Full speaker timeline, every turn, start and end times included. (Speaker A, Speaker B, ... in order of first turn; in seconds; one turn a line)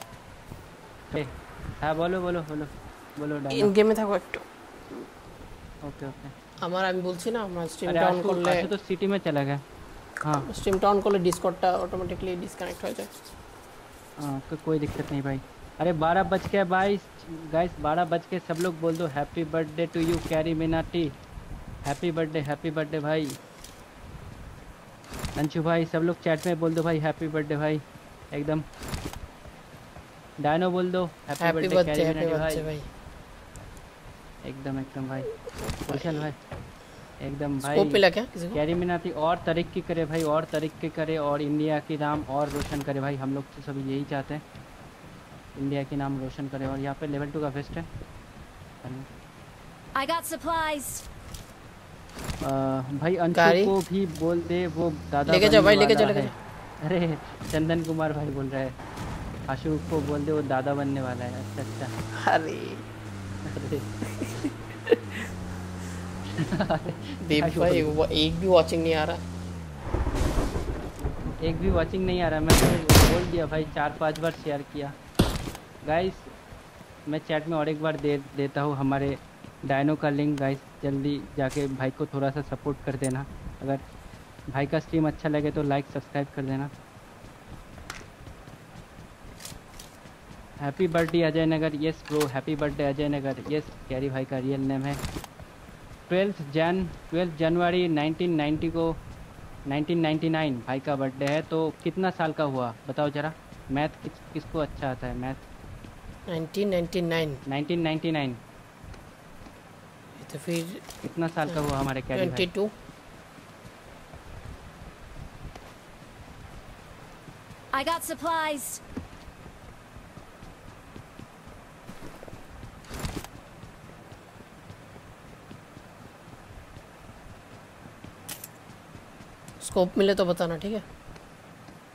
Speaker A: 1.1-3.7
Speaker B: 3.5-4.5
Speaker A: 5.8-6.3
Speaker B: 6.6-8.7
Speaker A: 7.9-9.6
Speaker A: 10.2-10.5
Speaker B: 10.4-13.1
Speaker A: 14.2-21.1
Speaker A: 21.9-23.3
Speaker A: 25.4-27.8
Speaker A: 28.3-28.6
Speaker A: 30.4-32.7
Speaker B: 31.4-32.9
Speaker A: 34.5-35.3
Speaker B: 35.6-36.3
Speaker A: 35.9-36.4
Speaker A: 37.2-44.4
Speaker B: 37.6-38.6
Speaker A: 45.6-47.9
Speaker C: 50.0-51.0
Speaker A: 52.4-58.7
Speaker B: 53.3-53.7
Speaker B: 55.3-56.3
Speaker A: 59.5-61.9
Speaker B: 62.2-62.8
Speaker A: 63.5-63.9
Speaker B: 64.1-65.0
Speaker A: 66.3-68.0
Speaker B: 67.2-69.2
Speaker A: 71.4-74.9
Speaker A: 75.9-76.2
Speaker A: 77.1-83.8
Speaker A: 84.5-86.7
Speaker A: 90.6-95.0
Speaker A: 96.1-99.0
Speaker A: 99.7-105.4
Speaker B: 106.3-107.4
Speaker A: 107.5-108.4
Speaker B: 110.2-110.8
Speaker A: 111.0-112.5
Speaker B: 112.1-112.7
Speaker C: 117.7-118.8
Speaker B: 129.6-130.8